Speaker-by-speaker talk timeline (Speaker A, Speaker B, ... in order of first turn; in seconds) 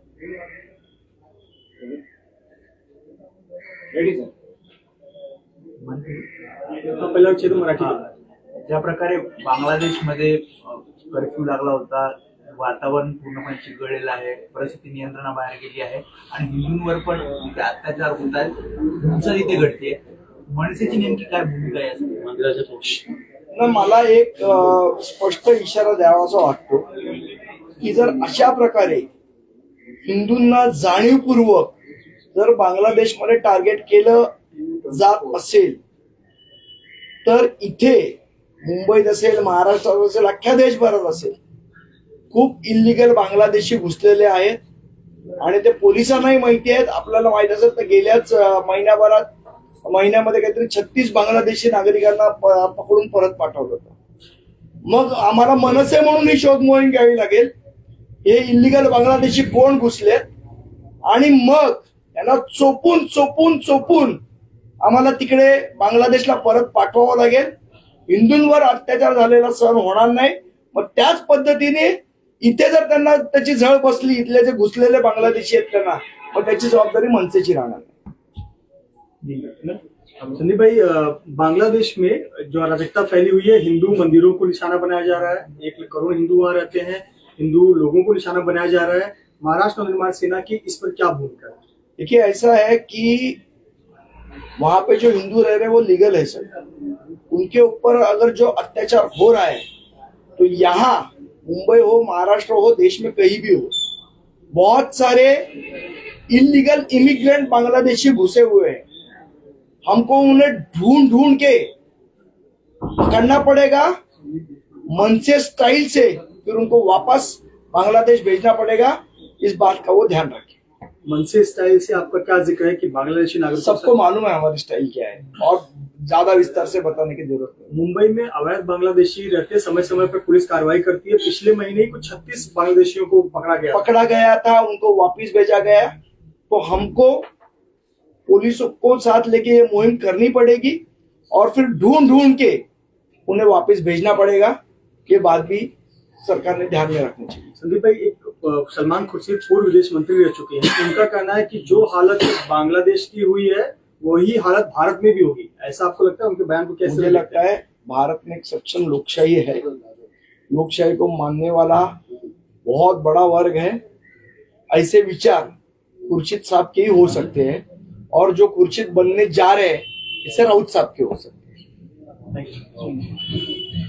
Speaker A: 5.8-6.2, 7.8-8.1, 8.6-23.0
Speaker B: 6.9-8.0, 79.2-91.6, 121.0-124.0, 127.7-133.9, 147.6-157.4, 172.3-173.0
Speaker C: 23.5-26.9, 27.8-29.1, 30.0-31.7, 32.3-35.8, 37.2-41.4, 42.3-44.6, 45.4-49.3, 49.8-53.9, 54.9-57.5, 58.2-60.2, 61.0-64.2, 64.8-67.5, 68.1-77.9, 92.0-93.4, 94.6-96.5, 97.3-99.6, 100.4-103.7, 104.5-105.6, 106.3-108.8, 109.8-111.7, 113.0-113.9, 114.9-120.6, 123.6-127.7, 133.7-135.9, 136.5-137.2, 138.2-142.6, 143.3-145.7, 146.2-147.5, 156.8-159.7, 160.5-162.0, 162.6-163.8, 164.7-165.5, 166.1-171.4